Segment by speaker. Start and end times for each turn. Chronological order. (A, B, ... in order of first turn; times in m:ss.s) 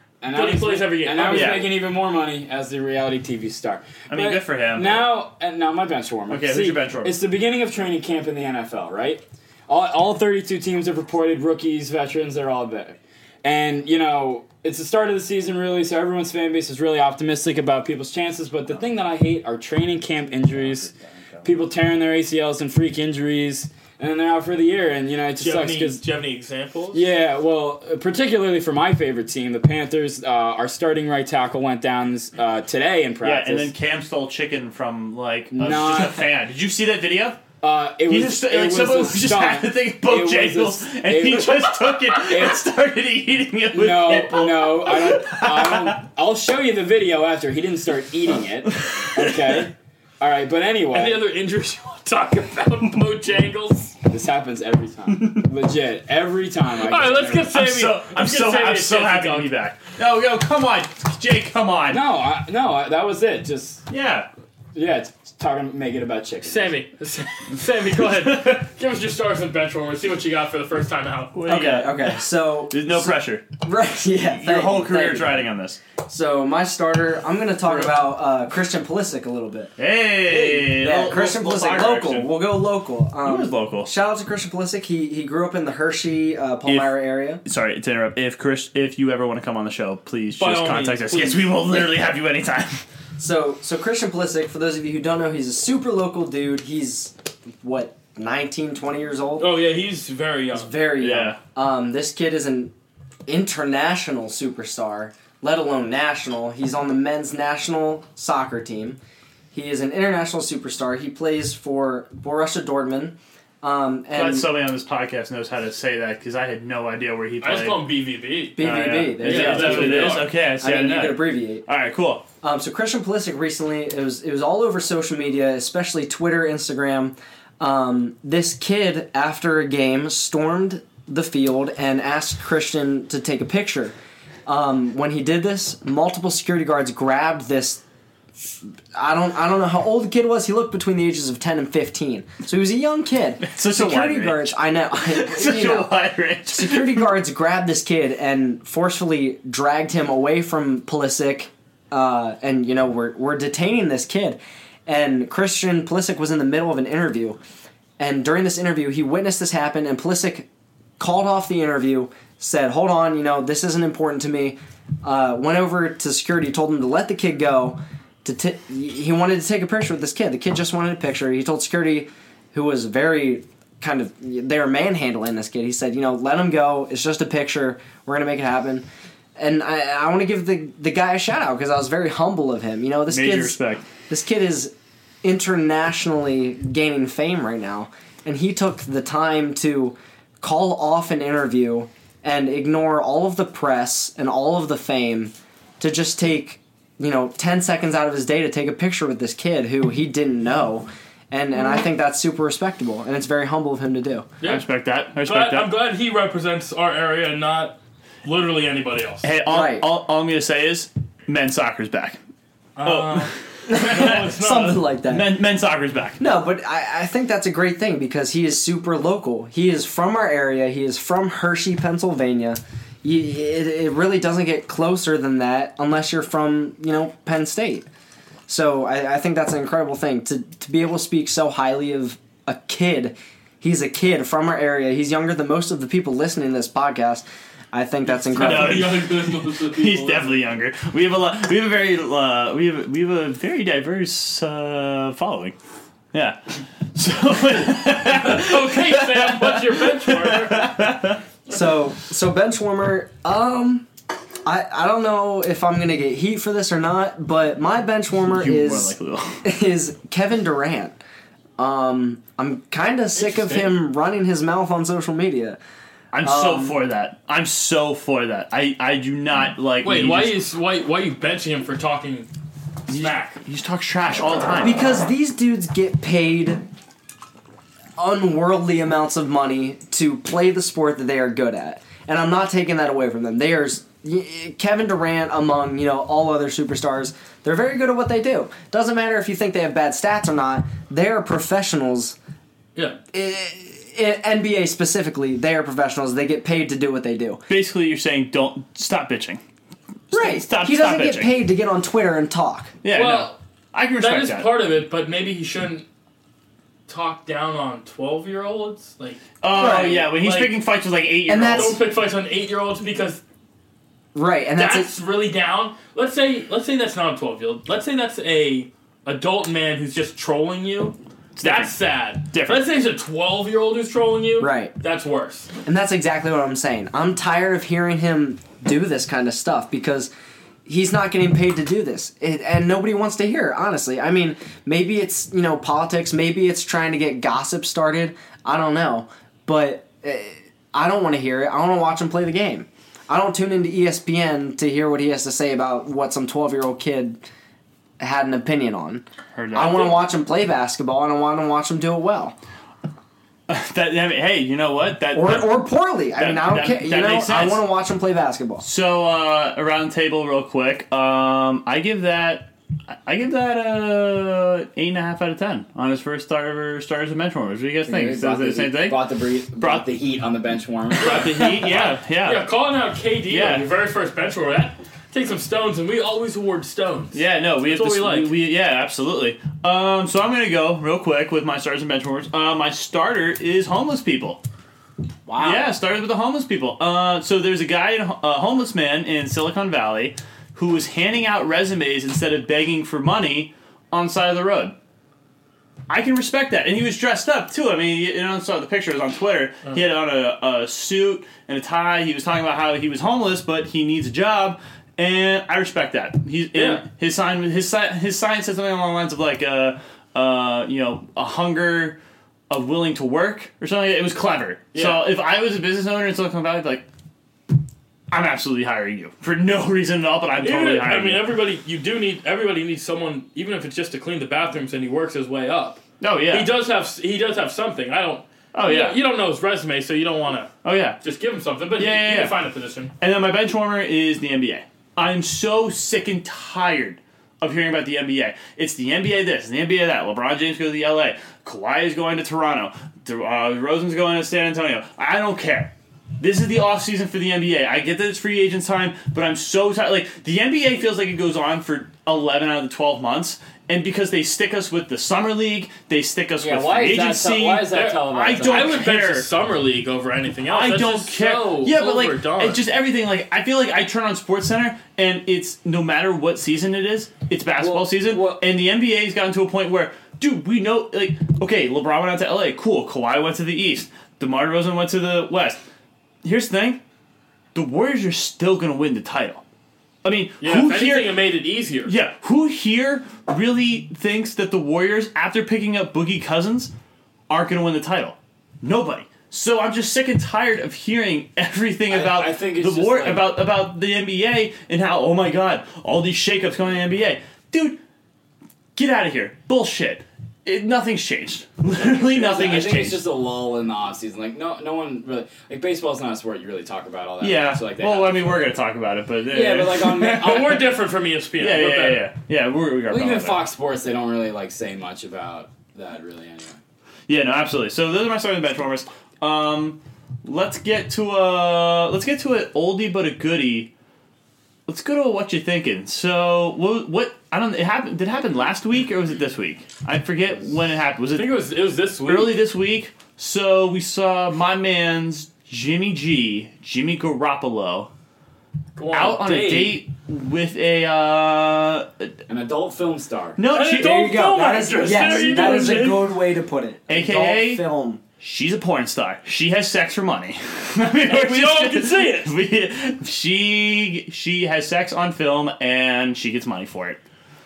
0:00.2-0:26.0 A
0:00.3-0:01.7 B
0:01.2-0:01.7 C
0:04.1-0:05.1 C
0:06.3-0:07.2 C
0:25.4-0:27.1 B
0:26.9-0:33.7 A
0:33.2-0:37.4 C
0:35.5-0:36.3 A
0:37.6-0:42.7 A
0:38.1-0:46.0 C
0:43.7-0:51.3 A
0:48.7-0:49.7 C
0:50.9-0:54.0 B
0:54.1-0:57.5 A
0:55.1-0:55.5 C
0:56.8-0:59.6 B
0:57.5-1:02.0 C
1:01.9-1:03.8 A
1:03.9-1:04.3 C
1:04.7-1:06.8 A
1:06.4-1:11.4 B
1:07.9-1:08.6 C
1:11.3-1:13.5 C
1:11.5-1:15.5 D
1:14.3-1:15.8 C
1:16.0-1:19.7 D
1:19.8-1:22.4 C
1:20.2-1:27.4 D
1:23.2-1:23.9 C
1:26.7-1:32.8 C
1:30.4-1:31.6 B
1:33.2-1:39.6 D
1:39.4-1:40.8 B
1:40.5-1:42.7 D
1:41.0-1:41.4 C
1:43.3-1:49.0 D
1:49.5-1:54.5 D
1:54.1-1:57.8 C
1:57.4-2:00.3 B
1:58.6-2:01.7 D
1:58.6-2:02.2 C
2:02.4-2:13.9 D
2:14.5-2:17.8 D
2:18.9-2:25.9 D
2:23.4-2:27.1 C
2:26.5-2:37.4 D
2:38.0-2:40.5 D
2:41.0-2:58.8 D
2:59.4-3:03.6 D
3:03.1-3:03.9 C
3:04.1-3:24.3 D
3:24.4-3:25.7 C
3:25.2-3:29.3 B
3:29.2-3:32.2 C
3:29.5-3:29.9 D
3:32.8-3:34.9 B
3:32.8-3:34.2 C
3:33.7-3:35.3 D
3:35.0-3:36.2 C
3:36.2-3:47.9 D
3:48.5-3:59.0 D
3:58.2-4:00.5 B
3:58.3-4:05.6 C
4:06.1-4:11.2 C
4:08.1-4:11.0 B
4:11.5-4:13.9 D
4:14.4-4:21.0 D
4:18.2-4:19.5 C
4:21.6-4:25.6 D
4:23.2-4:23.8 B
4:26.1-4:30.4 C
4:26.2-4:26.8 D
4:29.8-4:32.3 B
4:32.9-4:33.4 B
4:32.9-4:34.8 C
4:34.6-4:36.6 D
4:38.0-4:52.2 D
4:53.1-4:57.4 D
4:57.5-4:59.4 C
5:00.1-5:01.3 C
5:00.1-5:02.7 D
5:02.8-5:04.5 C
5:02.9-5:03.4 B
5:04.0-5:05.9 B
5:06.9-5:10.6 B
5:09.4-5:11.8 C
5:09.6-5:10.1 D
5:11.3-5:11.8 D
5:11.4-5:13.2 B
5:14.2-5:14.9 D
5:14.6-5:25.5 B
5:21.4-5:21.7 C
5:22.3-5:22.6 C
5:24.4-5:24.7 D
5:25.6-5:30.1 D
5:30.7-5:47.2 D
5:48.0-5:52.4 D
5:49.4-5:50.0 C
5:53.5-5:55.6 C
5:55.1-5:58.6 D
5:56.2-5:57.7 C
5:58.6-6:09.0 C
6:07.9-6:11.3 A
6:09.6-6:09.8 C
6:11.0-6:12.5 C
6:11.0-6:18.3 B
6:13.3-6:13.7 C
6:17.1-6:24.4 C
6:25.3-6:25.7 D
6:25.4-6:34.7 C
6:35.9-6:52.0 C
6:46.6-6:46.8 B
6:52.5-6:56.8 C
6:54.7-6:55.0 B
6:58.1-7:01.3 C
7:00.4-7:12.9 B
7:06.0-7:06.6 C
7:08.5-7:09.0 C
7:10.6-7:11.0 C
7:11.8-7:12.4 C
7:13.0-7:39.3 C
7:36.4-7:38.8 A
7:37.7-7:42.6 B
7:40.5-7:55.6 C
7:47.6-7:48.5 A
7:56.2-7:56.8 C
7:57.5-7:59.4 C
8:00.0-8:01.2 C
8:00.4-8:01.9 B
8:01.9-8:06.7 C
8:07.3-8:17.8 C
8:11.9-8:13.3 A
8:18.8-8:23.0 C
8:21.8-8:28.5 A
8:27.2-8:30.6 C
8:29.3-8:30.6 A
8:30.2-8:32.1 B
8:31.4-8:33.4 C
8:32.9-8:36.6 A
8:37.1-8:43.7 C
8:44.7-8:51.4 C
8:51.1-8:52.4 B
8:52.0-8:57.9 C
8:58.8-8:59.8 B
8:58.9-9:02.1 C
9:02.3-9:03.4 A
9:03.4-9:04.2 C
9:03.5-9:06.2 B
9:03.7-9:08.0 D
9:05.0-9:05.3 C
9:06.9-9:07.6 C
9:08.2-9:17.0 C
9:11.0-9:12.3 B